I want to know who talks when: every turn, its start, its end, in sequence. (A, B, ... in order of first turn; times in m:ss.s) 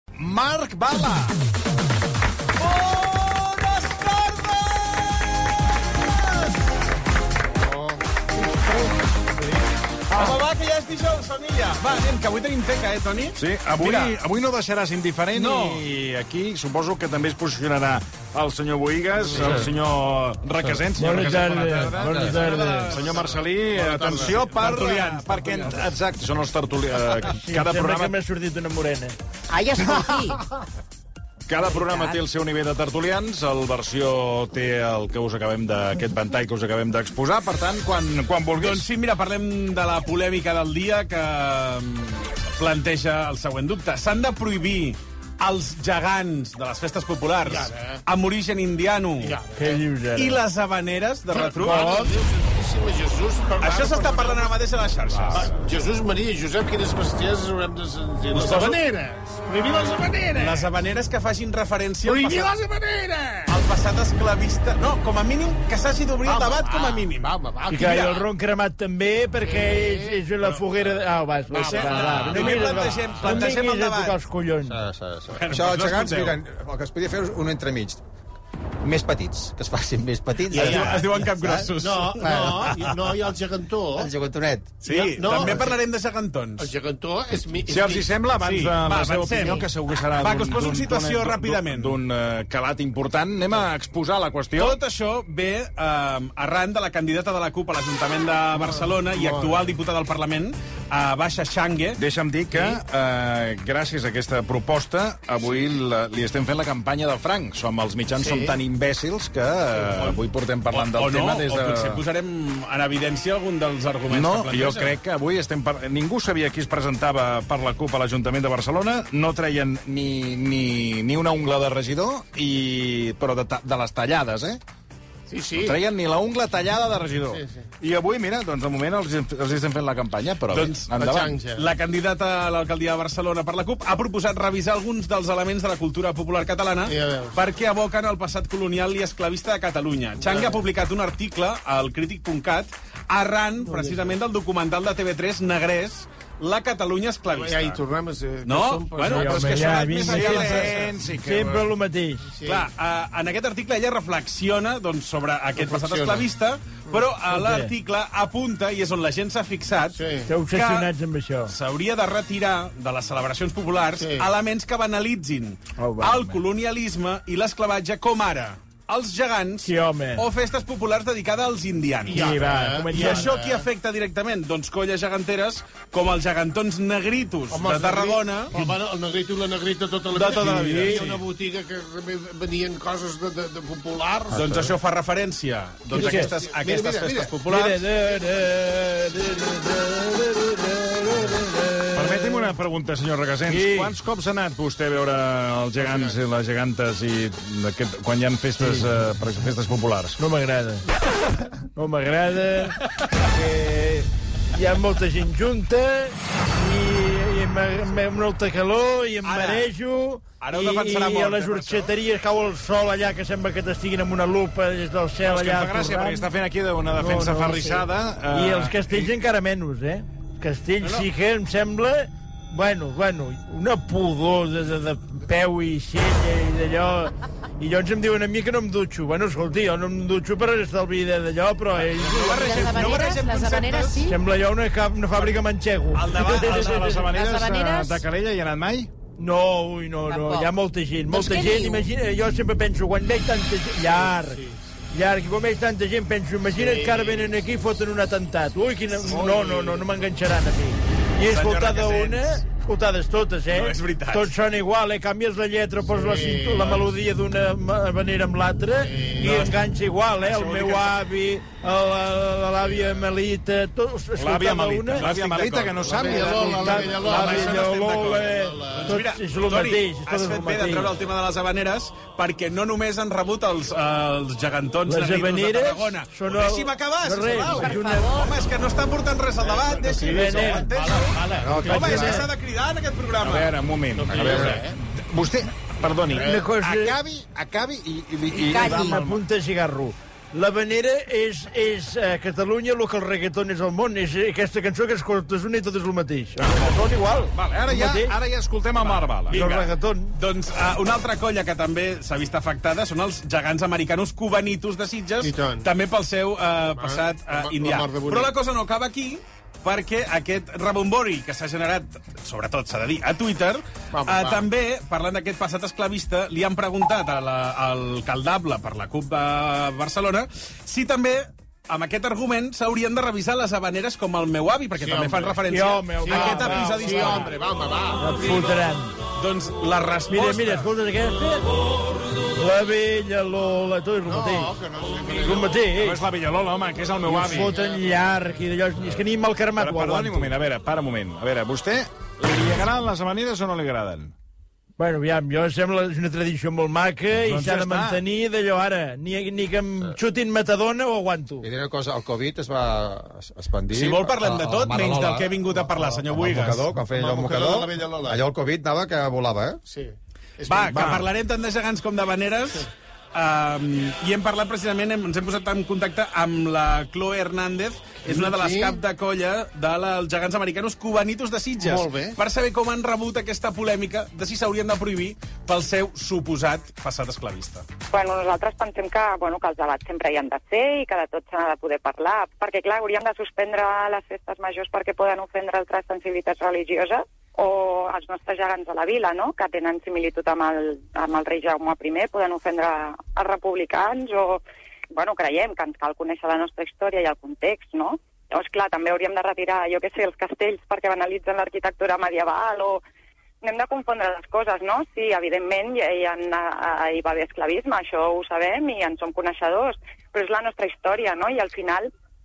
0:00.2-0:01.4 A
0:02.6-0:05.4 B
0:06.0-0:06.6 B
0:07.6-0:08.0 C
0:10.1-0:14.2 B
0:13.4-0:28.2 A
0:15.3-0:15.8 B
0:20.9-0:22.9 D
0:22.1-0:23.3 B
0:23.0-0:24.6 C
0:24.5-0:25.9 B
0:27.4-0:29.2 D
0:29.5-0:30.4 E
0:31.5-0:38.9 A
0:31.6-0:32.2 E
0:38.6-0:49.4 B
0:47.4-0:48.0 C
0:49.2-0:49.8 C
0:49.6-0:50.4 D
0:50.2-0:52.0 B
0:51.3-0:54.6 C
0:51.6-0:52.1 D
0:53.6-0:55.5 B
0:55.3-1:00.7 C
1:00.4-1:02.5 B
1:02.0-1:03.5 C
1:03.5-1:08.2 B
1:06.2-1:08.2 C
1:07.7-1:14.8 D
1:09.4-1:10.8 C
1:11.5-1:13.4 C
1:11.5-1:14.2 B
1:14.7-1:18.0 F
1:15.3-1:16.4 B
1:18.8-1:22.7 F
1:20.5-1:21.2 C
1:20.5-1:22.7 B
1:21.8-1:24.1 C
1:24.0-1:25.7 F
1:24.8-1:26.7 B
1:25.2-1:25.8 C
1:26.6-1:28.1 C
1:27.7-1:34.8 A
1:28.4-1:32.0 B
1:29.3-1:29.7 C
1:34.6-1:42.0 B
1:38.5-1:39.7 C
1:42.0-1:52.0 A
1:48.2-1:48.6 C
1:50.7-1:55.0 B
1:54.1-2:04.6 A
2:05.3-2:05.8 C
2:05.6-2:11.4 A
2:07.3-2:07.6 C
2:10.5-2:27.8 B
2:11.0-2:11.6 C
2:16.9-2:17.4 C
2:20.2-2:20.6 C
2:23.7-2:24.1 C
2:27.3-2:29.9 C
2:28.4-2:30.8 B
2:29.0-2:32.2 D
2:30.0-2:31.7 A
2:32.3-2:32.7 C
2:32.5-2:40.0 B
2:35.6-2:36.3 C
2:37.3-2:37.7 D
2:39.9-2:40.3 C
2:40.3-2:41.5 D
2:40.5-2:40.9 B
2:41.5-2:52.4 B
2:44.0-2:44.3 C
2:45.8-2:46.4 D
2:49.6-2:50.2 D
2:52.1-2:53.7 C
2:52.1-2:53.3 D
2:52.9-2:58.5 B
2:57.5-3:04.6 C
3:00.2-3:01.1 D
3:00.2-3:01.2 B
3:04.3-3:07.8 B
3:05.9-3:07.4 C
3:05.9-3:06.3 D
3:07.5-3:12.5 D
3:12.0-3:20.2 A
3:13.5-3:14.0 D
3:15.8-3:16.1 C
3:18.6-3:19.0 D
3:20.2-3:20.8 D
3:21.8-3:36.3 D
3:29.2-3:29.7 B
3:30.4-3:31.9 B
3:35.2-3:39.2 A
3:37.0-3:53.1 D
3:52.1-3:54.0 B
3:52.3-3:54.2 E
3:54.0-3:57.0 D
3:55.2-3:55.4 B
3:55.9-3:57.0 B
3:56.3-3:58.9 A
3:57.0-3:58.0 E
3:59.2-4:04.4 D
4:00.1-4:00.5 E
4:01.1-4:01.9 E
4:03.8-4:04.7 C
4:04.9-4:25.0 D
4:06.5-4:07.7 C
4:11.2-4:12.4 B
4:13.5-4:14.3 B
4:15.9-4:16.9 C
4:18.8-4:19.5 C
4:20.2-4:21.0 B
4:22.6-4:23.0 C
4:24.2-4:28.0 A
4:25.0-4:26.3 B
4:25.8-4:29.0 C
4:26.6-4:30.9 D
4:27.0-4:43.5 B
4:34.9-4:38.1 D
4:37.5-4:38.4 E
4:39.4-4:42.2 C
4:40.0-4:40.7 D
4:41.4-4:42.2 F
4:41.7-4:42.1 D
4:43.2-4:49.2 A
4:44.0-4:44.8 C
4:44.1-4:44.6 F
4:46.1-4:47.0 D
4:46.2-4:46.5 C
4:48.3-4:49.0 E
4:48.5-4:58.2 D
4:57.3-4:59.4 A
4:58.8-5:27.4 B
4:59.3-5:00.2 D
5:05.2-5:05.7 C
5:06.6-5:08.3 C
5:13.9-5:14.5 C
5:24.8-5:25.4 C
5:25.5-5:27.3 D
5:26.0-5:28.4 C
5:28.0-5:29.0 D
5:29.2-5:30.7 B
5:30.1-5:31.4 D
5:32.4-5:34.6 D
5:34.1-5:35.6 C
5:35.2-5:36.0 D
5:35.7-5:37.6 A
5:37.1-5:40.3 D
5:39.6-5:44.1 A
5:44.8-5:51.5 D
5:47.2-5:48.0 A
5:51.4-5:59.6 F
5:53.7-5:56.6 B
5:56.9-5:58.2 C
5:59.7-6:01.1 C
6:00.5-6:17.6 B
6:00.7-6:01.0 A
6:08.1-6:08.8 C
6:11.6-6:12.2 C
6:17.9-6:42.8 G
6:43.4-6:51.9 G